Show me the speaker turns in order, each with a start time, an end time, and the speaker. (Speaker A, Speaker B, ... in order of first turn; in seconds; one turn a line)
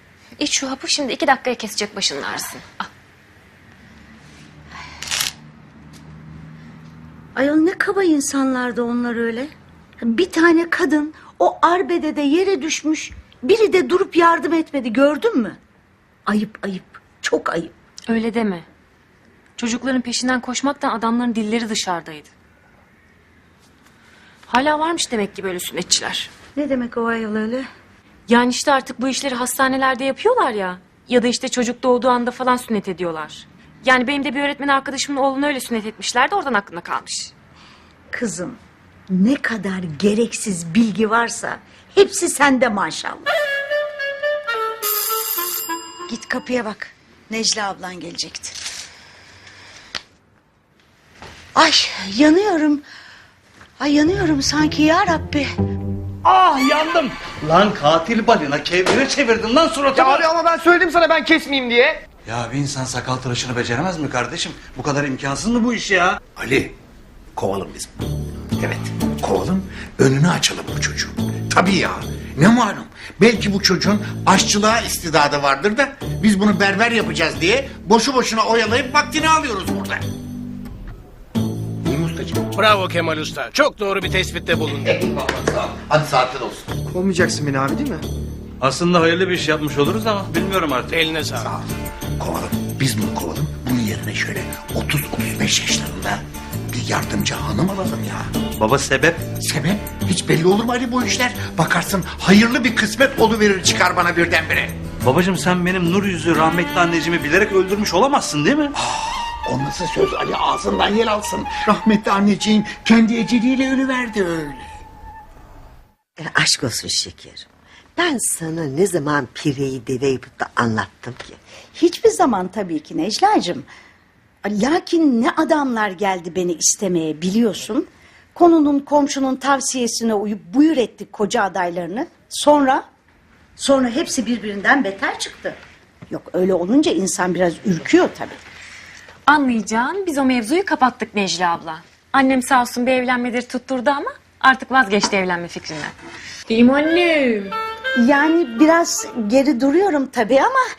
Speaker A: 0.4-2.9
Speaker B: 7.3-9.5
Speaker B: 10.0-15.6
Speaker B: 16.3-17.7
Speaker A: 18.1-18.7
Speaker A: 19.6-22.3
Speaker A: 24.5-26.3
Speaker B: 26.6-27.7
Speaker A: 28.3-37.3
Speaker B: 38.1-38.6
Speaker B: 39.1-43.3
Speaker B: 46.1-48.6
Speaker B: 51.5-52.8
Speaker B: 53.8-55.5
Speaker C: 56.2-60.3
Speaker D: 60.0-62.0
Speaker C: 62.3-66.2
Speaker E: 66.4-66.7
Speaker E: 67.4-68.0
Speaker E: 68.6-80.0
Speaker E: 81.9-82.4
Speaker F: 82.5-84.9
Speaker E: 84.9-86.7
Speaker D: 86.9-88.0
Speaker C: 88.6-91.0
Speaker F: 90.9-91.5
Speaker E: 91.4-98.3
Speaker C: 98.6-99.3
Speaker E: 99.4-104.8
Speaker C: 105.0-108.8
Speaker E: 108.7-114.7
Speaker G: 116.2-121.4
Speaker B: 121.8-123.7
Speaker B: 124.5-132.8
Speaker B: 133.6-135.6
Speaker B: 136.1-138.4
Speaker A: 139.3-145.9
Speaker A: 146.5-147.6
Speaker B: 148.0-150.6